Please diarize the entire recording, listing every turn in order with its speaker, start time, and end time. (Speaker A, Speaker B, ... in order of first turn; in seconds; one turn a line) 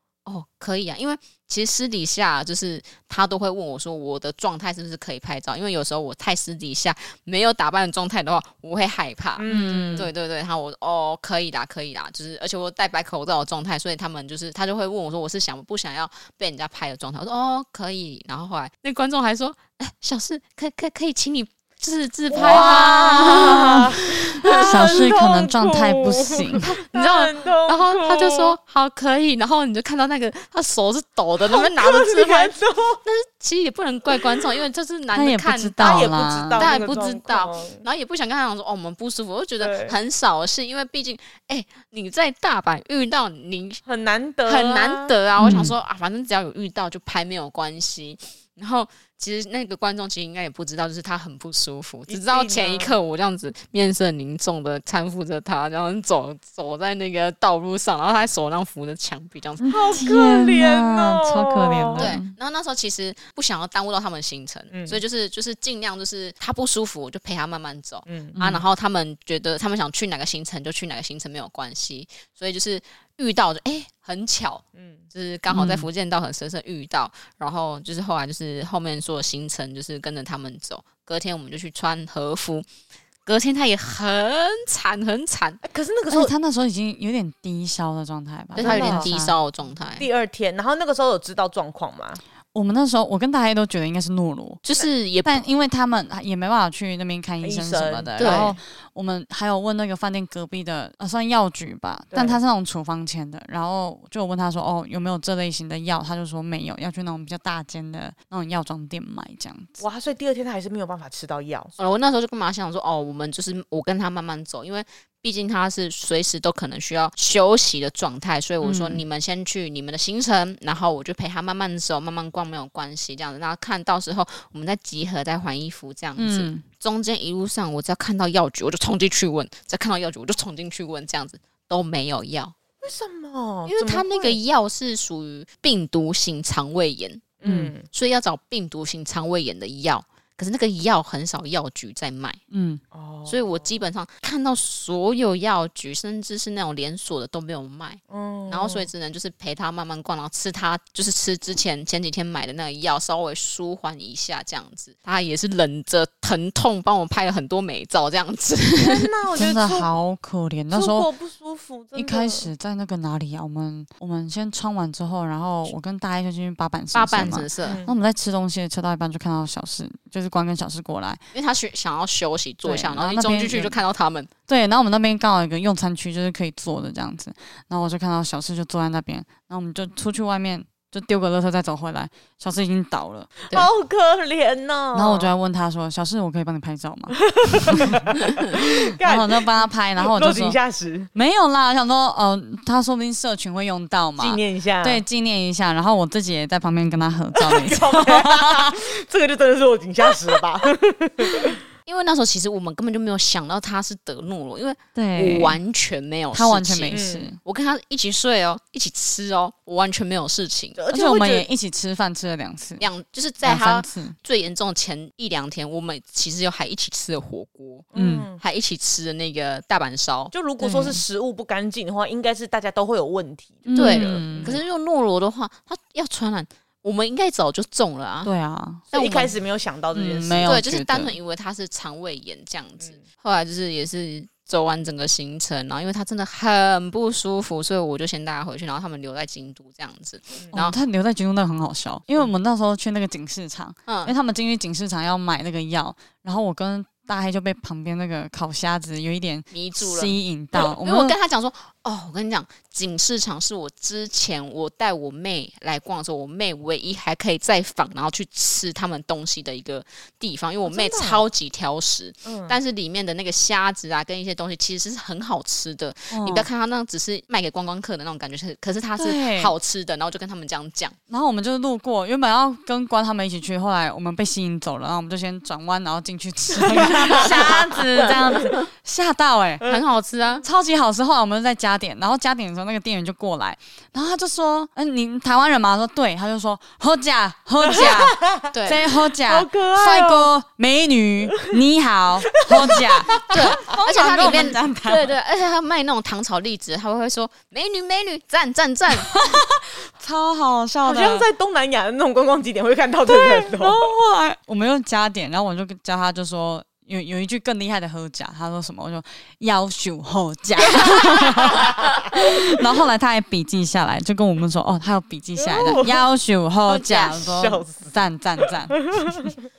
Speaker A: 0.2-24.9
Speaker B: 9.4-10.1
Speaker C: 9.4-10.1
Speaker B: 22.3-28.6
Speaker C: 22.4-23.9
Speaker C: 24.4-26.7
Speaker A: 26.6-43.8
Speaker B: 31.4-33.0
Speaker C: 35.1-36.7
Speaker B: 35.8-37.8
Speaker B: 39.6-40.0
Speaker B: 43.8-45.1
Speaker A: 44.5-59.8
Speaker C: 45.4-45.7
Speaker B: 52.1-52.9
Speaker C: 59.6-62.3
Speaker B: 59.7-62.1
Speaker A: 61.9-82.7
Speaker B: 64.7-65.0
Speaker B: 68.1-68.3
Speaker C: 68.3-68.6
Speaker C: 75.5-75.9
Speaker A: 83.2-85.6
Speaker B: 85.6-86.3
Speaker C: 86.1-89.3
Speaker A: 88.5-90.1
Speaker B: 88.6-89.1
Speaker B: 90.0-92.2
Speaker C: 92.5-94.6
Speaker A: 94.6-95.4
Speaker C: 95.2-109.8
Speaker B: 97.4-98.6
Speaker A: 98.2-98.5
Speaker B: 102.1-102.4
Speaker B: 109.8-111.7
Speaker A: 111.8-132.5
Speaker C: 118.6-119.0
Speaker C: 126.2-126.6
Speaker B: 132.8-134.4
Speaker A: 133.7-137.3
Speaker B: 137.4-137.9
Speaker C: 137.4-137.7
Speaker A: 137.9-142.4
Speaker C: 142.5-142.8
Speaker B: 142.9-143.8
Speaker A: 143.2-159.1
Speaker B: 148.1-148.9
Speaker B: 158.8-159.9
Speaker C: 159.3-161.1
Speaker B: 160.7-162.5
Speaker C: 161.9-171.2
Speaker A: 166.9-167.8
Speaker B: 167.7-167.9
Speaker A: 171.3-174.3
Speaker C: 172.6-173.7
Speaker C: 174.5-183.4
Speaker B: 183.5-185.3
Speaker C: 184.9-190.6
Speaker B: 187.2-191.1
Speaker C: 191.1-198.7
Speaker B: 194.2-195.0
Speaker B: 197.3-201.6
Speaker A: 201.8-210.8
Speaker C: 204.9-205.6
Speaker C: 206.3-207.4
Speaker B: 206.9-207.3
Speaker B: 210.8-211.5
Speaker C: 210.9-212.8
Speaker A: 212.8-220.3
Speaker C: 213.4-214.2
Speaker B: 217.9-218.4
Speaker C: 217.9-218.3
Speaker B: 220.3-224.6
Speaker C: 220.6-221.0
Speaker C: 223.6-224.6
Speaker A: 223.7-228.3
Speaker C: 228.2-228.8
Speaker B: 228.9-230.6
Speaker A: 228.9-229.3
Speaker C: 229.9-231.1
Speaker A: 230.4-240.8
Speaker C: 240.5-251.2
Speaker A: 243.9-244.1
Speaker A: 249.5-270.9
Speaker B: 260.6-261.2
Speaker B: 262.2-262.6
Speaker C: 266.1-266.5
Speaker C: 269.0-269.5
Speaker C: 271.1-279.7
Speaker B: 276.6-278.4
Speaker A: 277.0-278.6
Speaker A: 279.6-280.4
Speaker C: 280.4-295.1
Speaker B: 287.6-288.5
Speaker A: 287.7-288.8
Speaker B: 289.2-290.3
Speaker B: 292.5-293.4
Speaker A: 293.3-299.2
Speaker B: 294.1-294.4
Speaker C: 299.0-301.3
Speaker B: 300.8-303.9
Speaker C: 303.1-319.3
Speaker B: 310.7-312.2
Speaker B: 315.4-316.1
Speaker B: 316.7-319.4